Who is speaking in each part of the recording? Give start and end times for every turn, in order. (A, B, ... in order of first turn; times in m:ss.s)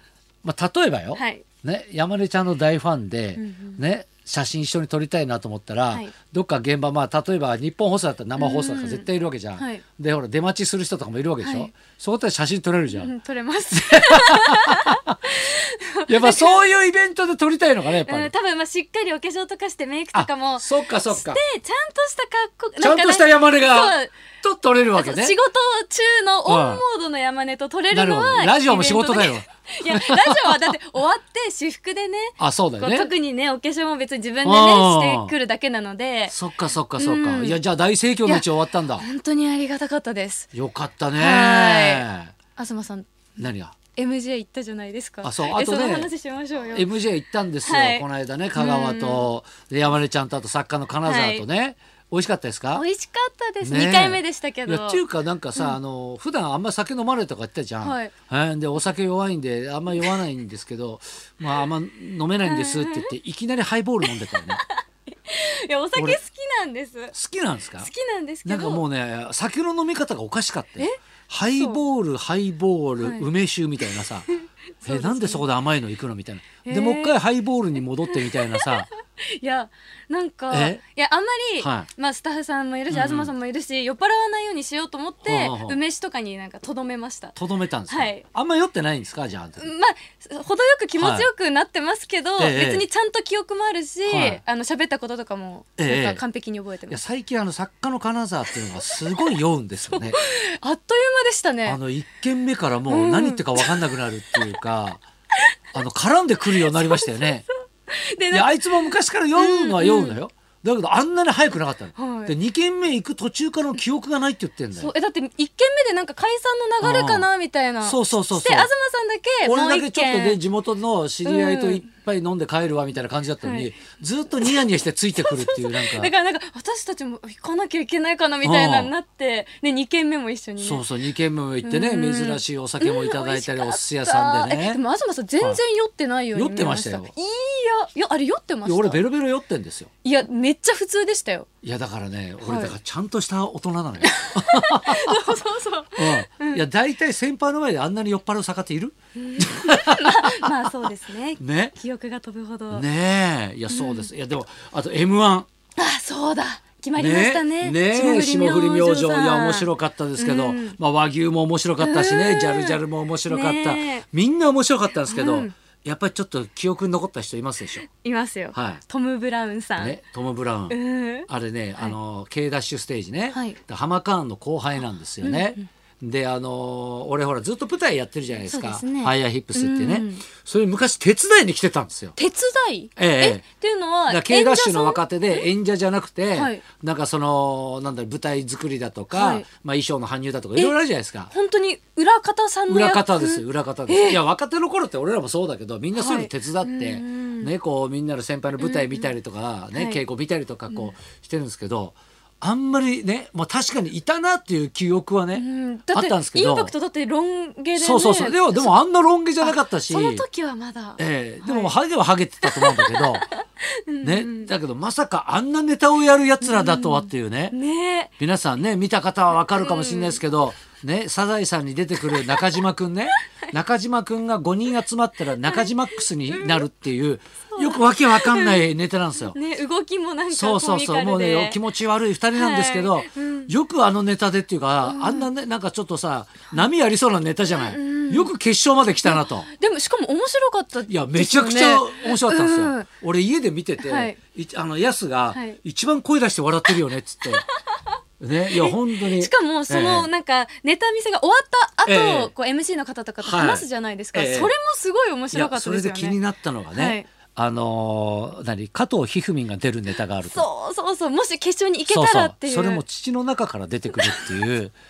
0:00.4-0:13.1 A
0:01.1-0:01.4 B
0:03.4-0:03.8 B
0:08.4-0:09.8 B
0:11.4-0:11.7 B
0:12.9-0:16.6 B
0:13.7-0:15.2 A
0:16.1-0:18.3 A
0:18.0-0:24.1 B
0:20.1-0:21.4 A
0:22.8-0:25.4 A
0:24.9-0:36.4 B
0:26.4-0:26.8 A
0:27.9-0:30.7 A
0:32.4-0:33.1 A
0:34.4-0:35.3 A
0:36.3-0:39.0 A
0:37.0-0:37.6 B
0:38.2-0:40.5 B
0:40.5-0:42.3 A
0:41.2-0:42.0 B
0:42.6-0:43.1 B
0:43.4-0:43.8 A
0:44.0-0:46.9 B
0:45.2-0:46.1 A
0:46.7-0:52.8 A
0:47.6-0:49.3 B
0:51.0-0:51.4 B
0:52.7-0:55.0 B
0:53.6-1:04.6 A
0:57.8-0:58.1 B
1:02.4-1:03.1 B
1:04.1-1:07.1 B
1:05.9-1:06.2 A
1:07.1-1:07.9 A
1:07.8-1:08.8 B
1:08.4-1:14.3 A
1:11.6-1:11.8 B
1:13.0-1:13.3 B
1:13.8-1:15.4 B
1:14.8-1:18.9 A
1:16.6-1:17.2 B
1:18.1-1:27.4 B
1:20.5-1:20.8 A
1:21.6-1:21.9 A
1:22.9-1:23.3 A
1:25.2-1:25.8 A
1:27.4-1:29.7 A
1:27.9-1:28.2 B
1:29.6-1:37.0 B
1:31.0-1:31.3 A
1:32.4-1:32.8 A
1:34.1-1:34.4 A
1:35.8-1:36.2 A
1:36.9-1:40.2 A
1:39.9-1:41.8 B
1:41.6-1:45.0 A
1:42.9-1:43.9 B
1:45.7-1:47.4 A
1:46.5-1:50.2 B
1:48.3-1:54.9 A
1:52.0-1:52.3 B
1:54.8-2:00.4 B
1:56.8-1:57.3 A
1:57.8-1:58.7 A
1:59.4-2:06.1 A
2:01.2-2:01.8 B
2:03.4-2:03.7 B
2:05.2-2:10.8 B
2:08.4-2:08.9 A
2:10.6-2:14.8 A
2:11.6-2:19.0 B
2:16.3-2:17.1 A
2:18.6-2:19.9 A
2:20.0-2:21.5 B
2:21.6-2:25.3 A
2:22.4-2:22.7 B
2:24.0-2:26.6 B
2:25.9-2:30.5 A
2:29.2-2:32.8 B
2:31.4-2:31.8 A
2:32.7-2:35.5 A
2:33.7-2:34.1 B
2:35.8-2:40.8 B
2:37.0-2:47.8 A
2:41.8-2:44.0 B
2:45.0-2:45.5 B
2:47.8-2:50.0 B
2:48.5-2:48.8 A
2:49.8-2:50.8 A
2:50.7-2:51.9 B
2:51.3-3:02.2 A
2:53.3-2:53.6 B
2:55.2-2:55.6 B
2:58.4-3:00.2 B
3:02.2-3:05.4 B
3:03.0-3:03.4 A
3:04.1-3:11.3 A
3:06.3-3:06.6 B
3:09.1-3:09.4 B
3:11.3-3:14.2 B
3:12.7-3:26.7 A
3:15.9-3:17.5 B
3:18.6-3:19.1 B
3:19.7-3:20.0 B
3:25.3-3:28.7 B
3:27.7-3:30.2 A
3:29.4-3:31.8 B
3:31.0-3:33.2 A
3:32.4-3:34.5 B
3:34.0-3:37.6 A
3:36.4-3:38.1 B
3:38.2-3:49.4 A
3:39.5-3:40.2 B
3:42.1-3:42.6 B
3:45.4-3:46.6 B
3:47.5-3:48.7 B
3:49.3-3:51.6 B
3:50.3-3:59.5 A
3:52.3-3:53.5 B
3:54.8-3:55.3 B
3:57.5-3:58.3 B
3:59.0-4:02.9 B
4:00.9-4:07.4 A
4:03.8-4:04.2 B
4:05.3-4:05.6 B
4:07.4-4:07.8 B
4:08.2-4:10.1 A
4:08.5-4:16.2 B
4:11.8-4:12.3 A
4:13.2-4:14.5 A
4:15.3-4:20.4 A
4:16.7-4:17.1 B
4:20.3-4:22.8 B
4:21.9-4:24.7 A
4:24.0-4:24.3 B